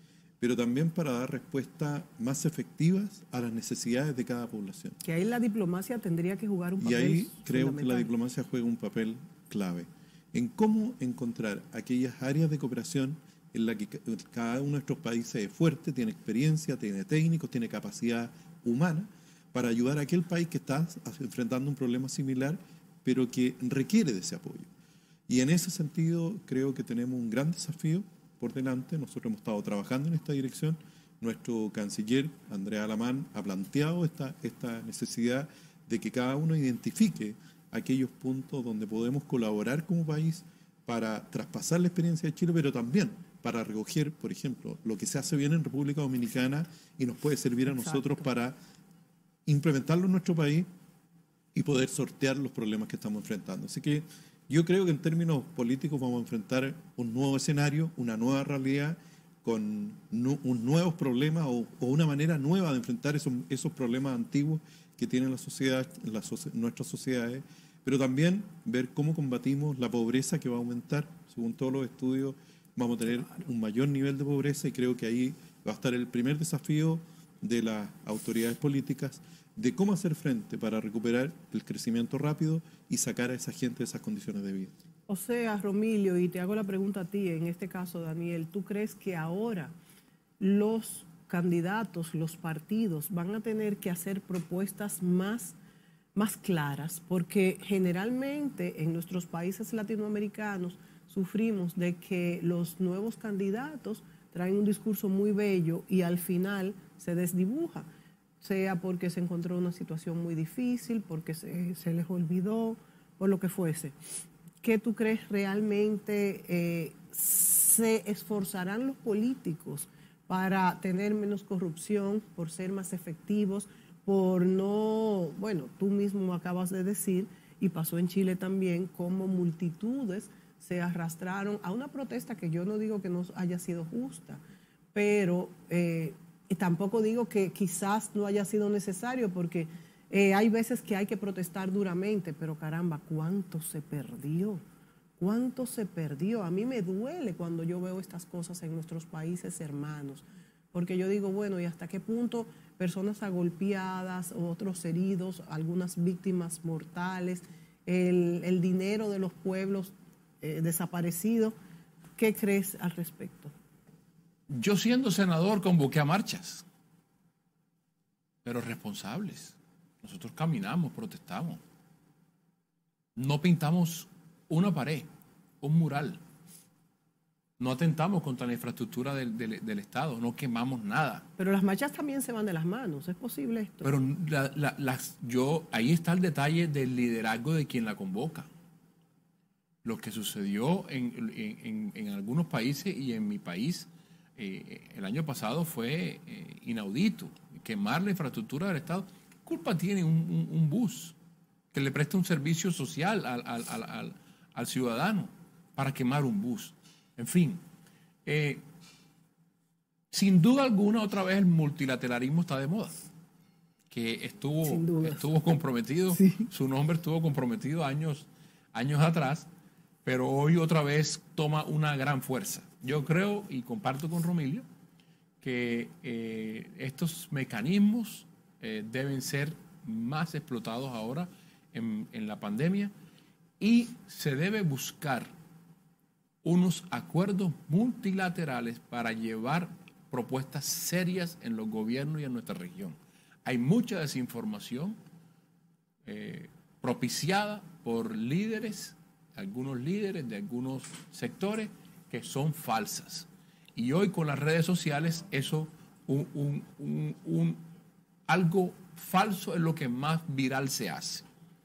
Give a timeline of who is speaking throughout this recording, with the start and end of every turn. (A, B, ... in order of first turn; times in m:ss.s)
0:00.4-0:05.0 A
0:05.0-0:08.1 B
0:06.8-0:24.7 A
0:25.3-0:48.6 A
0:47.7-0:48.2 B
0:49.5-0:50.7 A
0:51.5-1:24.8 A
1:25.1-1:29.7 B
1:30.4-1:35.6 B
1:36.2-1:47.9 B
1:48.4-1:54.0 B
1:54.6-2:14.4 B
2:14.9-2:24.6 B
2:25.2-2:41.6 B
2:42.2-2:43.5 B
2:44.5-2:46.6 C
2:48.4-2:51.6 C
2:53.2-2:55.1 C
2:55.6-2:56.2 C
2:57.6-3:01.3 C
3:01.4-3:03.9 B
3:03.8-3:08.5 C
3:09.8-3:21.2 C
3:21.7-3:27.6 C
3:28.2-3:28.6 C
3:30.1-3:33.0 C
3:33.9-3:39.5 C
3:34.6-3:35.3 B
3:36.1-3:36.5 B
3:40.0-3:44.6 C
3:45.4-3:52.9 C
3:53.6-3:55.3 C
3:56.4-4:05.0 C
4:06.1-4:17.6 C
4:18.3-4:21.2 C